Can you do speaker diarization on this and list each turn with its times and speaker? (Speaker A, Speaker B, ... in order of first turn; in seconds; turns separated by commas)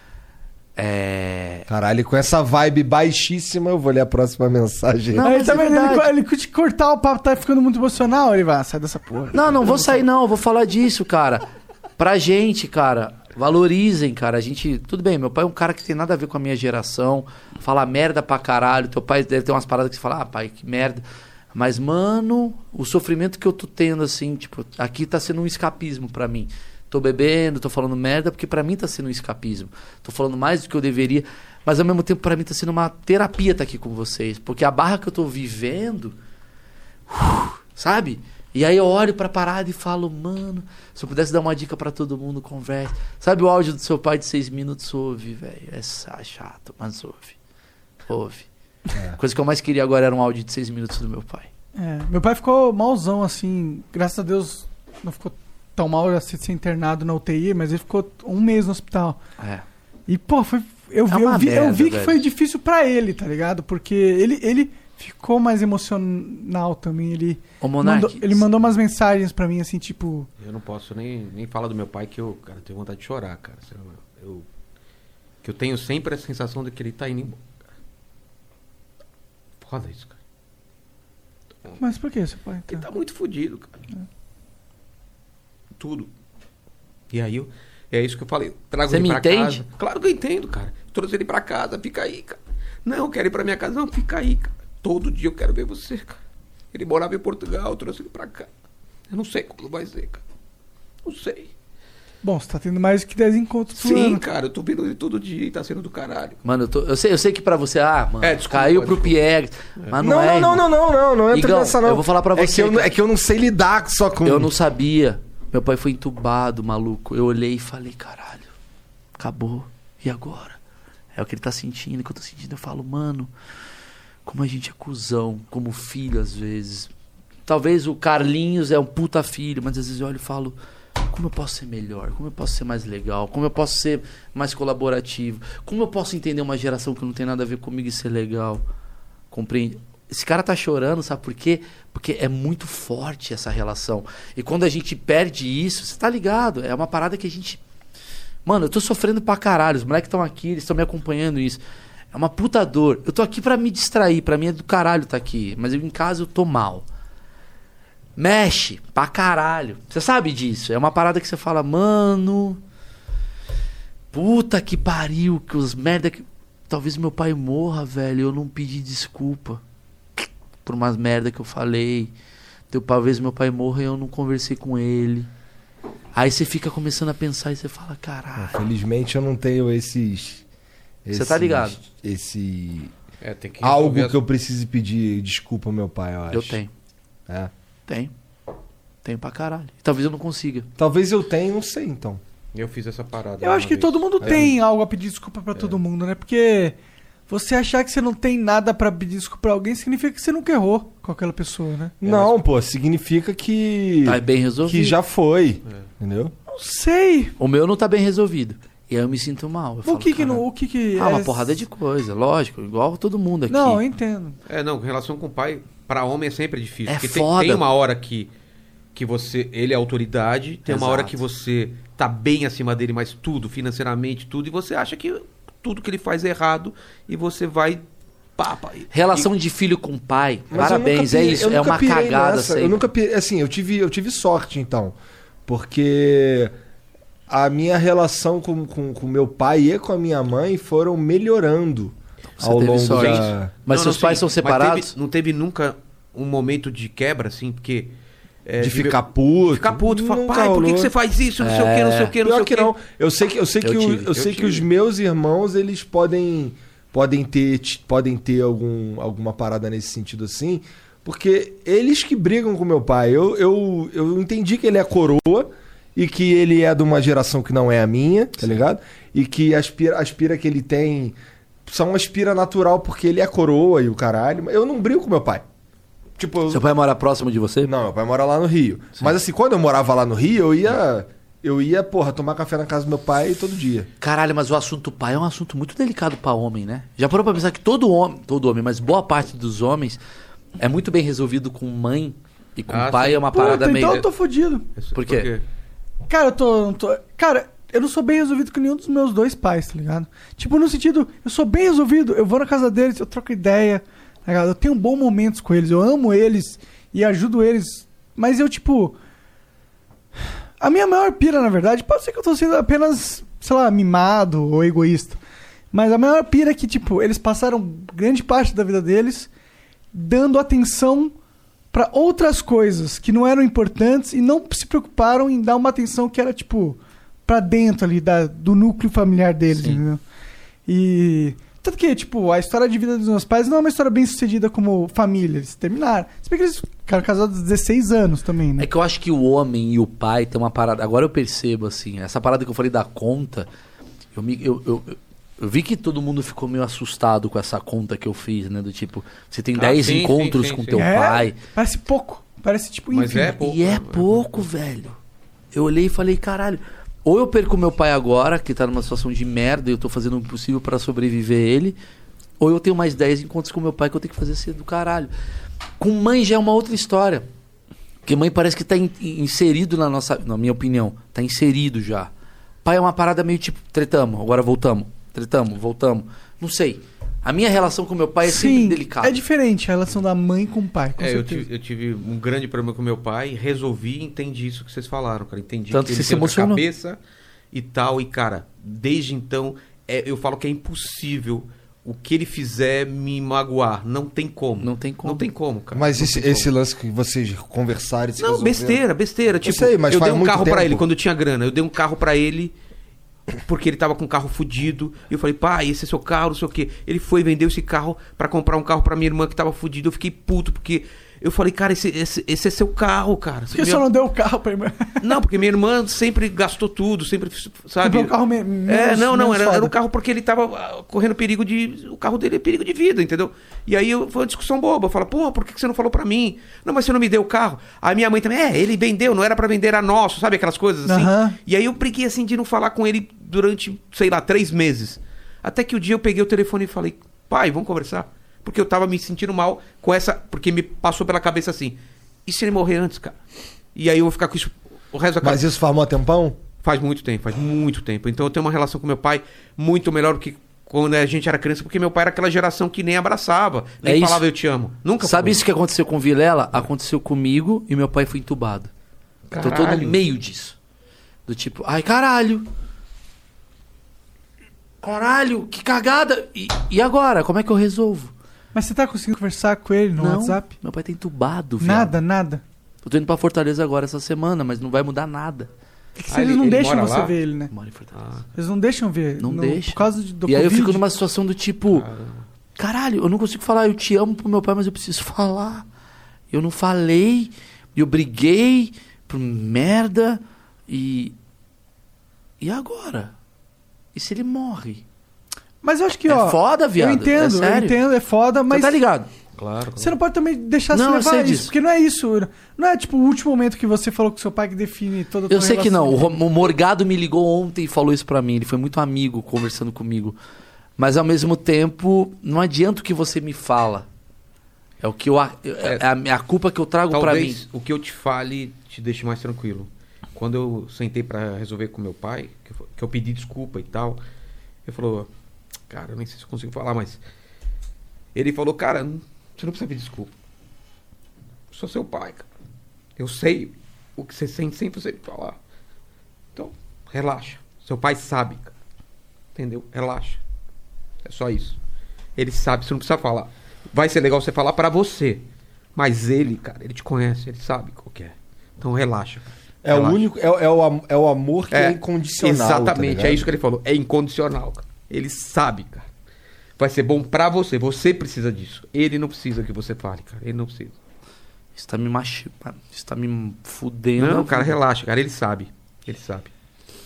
Speaker A: 0.8-1.7, Speaker B: 1.7-5.3, Speaker A: 5.1-6.1, Speaker C: 5.2-10.0, Speaker A: 9.3-11.4, Speaker A: 12.0-21.0, Speaker A: 21.5-36.1, Speaker A: 37.1-47.4, Speaker A: 48.0-48.5, Speaker A: 49.1-51.5, Speaker C: 51.8-59.2, Speaker A: 59.4-59.6, Speaker C: 60.1-70.3, Speaker A: 61.1-62.2, Speaker A: 67.6-68.5, Speaker D: 70.4-74.5, Speaker D: 75.4-77.4, Speaker D: 79.6-80.2, Speaker C: 81.8-82.9, Speaker D: 82.7-83.8, Speaker D: 85.8-86.1, Speaker D: 87.1-96.2, Speaker A: 88.9-89.6, Speaker D: 96.7-98.5, Speaker D: 99.1-100.2, Speaker D: 101.0-101.5, Speaker C: 102.2-104.2, Speaker D: 103.7-106.4, Speaker A: 106.4-110.7, Speaker D: 108.2-109.2, Speaker B: 110.0-114.5, Speaker A: 111.3-112.9, Speaker A: 114.2-118.5, Speaker A: 119.2-120.6, Speaker A: 121.1-123.3, Speaker A: 124.2-126.9, Speaker A: 127.5-138.6, Speaker A: 139.3-147.6, Speaker A: 148.4-151.6, Speaker A: 152.1-156.8, Speaker A: 158.2-162.6, Speaker A: 164.1-169.6, Speaker A: 170.2-172.1, Speaker A: 172.7-175.3, Speaker A: 176.1-178.7, Speaker B: 178.4-180.4, Speaker B: 181.0-182.9, Speaker A: 181.1-181.8, Speaker D: 183.2-184.2, Speaker B: 183.6-186.6, Speaker A: 186.3-186.7, Speaker A: 187.9-188.1, Speaker A: 189.0-190.7, Speaker B: 190.8-192.2, Speaker D: 192.5-194.5, Speaker C: 193.4-196.8, Speaker B: 194.2-194.5, Speaker C: 197.3-201.9, Speaker B: 202.0-206.3, Speaker D: 202.0-202.4, Speaker A: 204.0-204.9, Speaker C: 206.5-207.3, Speaker A: 207.4-213.8, Speaker C: 209.8-211.6, Speaker C: 213.5-214.4, Speaker D: 214.5-218.3, Speaker A: 216.9-217.6, Speaker D: 218.9-227.8, Speaker A: 220.7-221.2, Speaker D: 228.4-229.3, Speaker A: 228.9-232.8, Speaker B: 230.5-236.5, Speaker B: 237.3-243.5, Speaker A: 242.4-244.9, Speaker D: 242.9-247.9, Speaker D: 248.4-252.7, Speaker B: 248.6-250.9, Speaker A: 251.4-252.2, Speaker B: 252.2-275.4, Speaker A: 253.6-254.2, Speaker D: 254.1-254.7, Speaker B: 276.2-276.6, Speaker A: 276.5-277.7, Speaker B: 277.6-283.9, Speaker A: 284.0-290.0, Speaker A: 290.6-294.0, Speaker D: 292.7-294.1, Speaker C: 293.3-294.6, Speaker D: 294.8-295.4, Speaker A: 294.9-295.3, Speaker C: 296.1-308.9, Speaker C: 310.6-315.2, Speaker C: 315.7-319.3, Speaker C: 319.9-321.1, Speaker C: 321.7-330.0, Speaker A: 329.5-329.8, Speaker C: 330.7-338.7, Speaker A: 338.6-343.5, Speaker A: 344.1-351.4, Speaker D: 349.5-350.9, Speaker C: 350.8-353.4, Speaker D: 352.9-354.5, Speaker A: 353.4-355.0, Speaker A: 355.5-361.8, Speaker A: 362.4-365.1, Speaker A: 365.8-367.3, Speaker A: 368.0-372.1, Speaker A: 372.6-379.2, Speaker C: 378.2-381.4, Speaker D: 381.0-387.0, Speaker A: 385.7-386.6, Speaker D: 387.5-396.1, Speaker A: 394.6-395.3, Speaker B: 395.7-398.8, Speaker A: 396.0-396.4, Speaker D: 398.2-402.5, Speaker B: 399.4-400.9, Speaker D: 403.4-413.9, Speaker C: 413.5-415.1, Speaker D: 415.0-418.1, Speaker C: 417.8-419.7, Speaker D: 418.6-443.2, Speaker C: 430.8-431.4, Speaker D: 443.7-445.4, Speaker B: 445.2-446.4, Speaker D: 446.6-455.4, Speaker A: 453.8-454.2, Speaker A: 455.0-458.7, Speaker D: 459.3-460.0, Speaker A: 459.4-460.6, Speaker A: 461.3-462.5, Speaker A: 464.8-468.1, Speaker C: 468.5-470.5, Speaker A: 469.9-471.9, Speaker C: 471.6-472.4, Speaker A: 472.8-475.5, Speaker C: 476.0-477.5, Speaker D: 476.1-477.2, Speaker A: 477.5-477.9, Speaker D: 477.9-478.3, Speaker C: 478.3-480.8, Speaker A: 479.2-481.9, Speaker D: 481.7-482.2, Speaker A: 482.6-485.6, Speaker A: 486.3-491.1, Speaker A: 492.4-493.1, Speaker A: 493.9-494.8, Speaker C: 495.6-498.8, Speaker A: 496.1-497.8, Speaker A: 498.5-499.1, Speaker D: 499.4-499.9, Speaker C: 499.8-506.2, Speaker A: 500.7-501.5, Speaker A: 505.3-510.1, Speaker A: 510.8-513.9, Speaker A: 514.8-517.4, Speaker D: 516.9-524.0, Speaker D: 524.6-525.1, Speaker D: 525.7-527.0, Speaker D: 528.1-530.1, Speaker D: 531.5-532.2, Speaker D: 533.0-535.4, Speaker D: 536.3-538.5, Speaker D: 539.3-540.2, Speaker D: 541.0-541.6, Speaker D: 542.1-550.0, Speaker B: 549.6-553.3, Speaker D: 551.5-555.9, Speaker D: 556.6-560.7, Speaker A: 561.5-564.6, Speaker D: 564.0-566.3